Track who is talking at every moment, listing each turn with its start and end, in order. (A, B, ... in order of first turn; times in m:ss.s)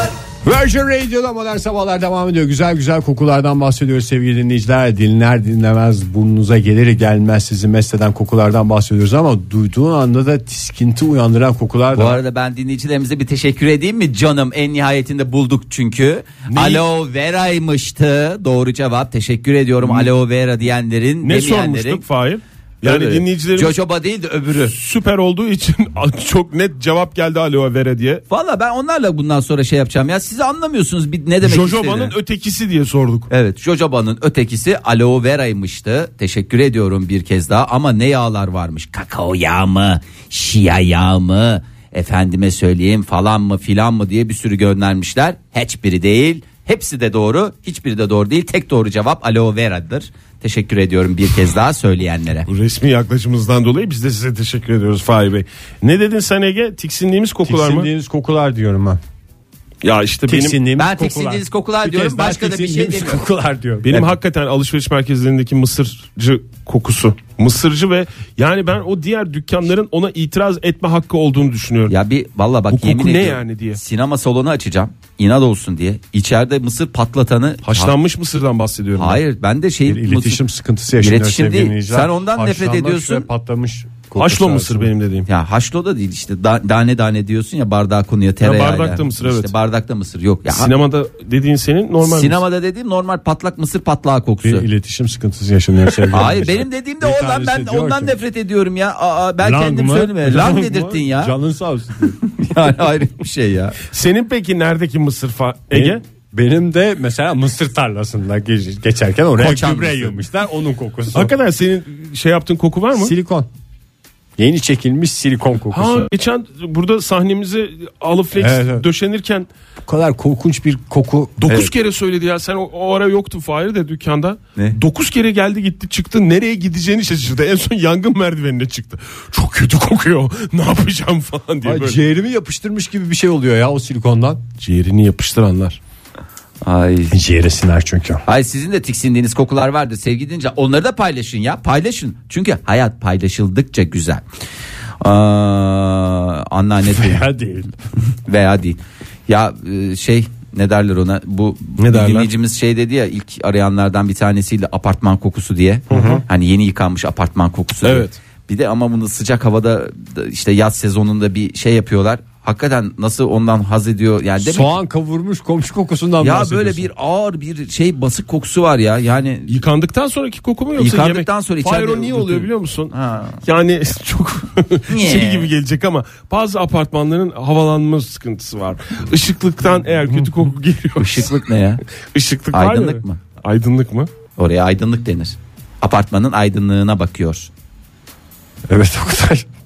0:00.4-0:12.2 A
0:11.9-0:22.0 B
0:16.5-0:16.8 C
0:19.8-0:20.1 C
0:21.2-0:23.8 C
0:22.8-0:24.7 B
0:24.7-0:28.2 C
0:28.3-0:32.1 B
0:31.4-0:33.3 C
0:33.3-0:52.5 B
0:52.5-0:57.9 C
0:57.4-0:59.0 A
0:59.8-1:00.6 C
1:00.3-1:04.0 A
1:00.8-1:03.2 B
1:03.8-1:11.9 C
1:11.9-1:17.9 B
1:12.7-1:13.8 C
1:17.6-1:19.2 C
1:19.0-1:20.4 B
1:19.9-1:24.9 A
1:21.0-1:23.3 B
1:24.2-1:25.3 C
1:25.3-1:30.7 B
1:28.4-1:29.5 C
1:30.5-1:32.4 C
1:32.0-1:34.7 B
1:34.4-1:38.1 A
1:36.1-1:41.3 B
1:39.4-1:42.2 A
1:42.4-1:43.8 B
1:43.9-1:46.0 C
1:45.7-1:51.3 A
1:49.4-1:50.2 B
1:51.1-1:53.1 C
1:52.9-1:53.5 A
1:54.4-1:56.1 A
1:55.7-1:59.5 C
1:58.4-1:58.8 A
1:59.8-2:01.4 A
2:01.4-2:12.0 C
2:11.6-2:14.4 A
2:14.6-2:15.8 C
2:16.6-2:17.2 B
2:17.1-2:18.2 A
2:18.2-2:24.2 B
2:25.0-2:27.2 B
2:26.9-2:27.7 A
2:28.2-2:44.8 B
2:31.8-2:32.3 C
2:35.9-2:36.2 C
2:35.9-2:36.2 A
2:37.8-2:38.2 C
2:44.4-2:46.9 A
2:46.2-2:49.5 B
2:49.5-3:01.3 C
2:50.8-2:53.4 B
2:54.9-2:55.5 B
3:01.0-3:01.8 B
3:02.1-3:04.1 C
3:02.5-3:03.2 B
3:04.4-3:07.5 B
3:08.7-3:09.4 A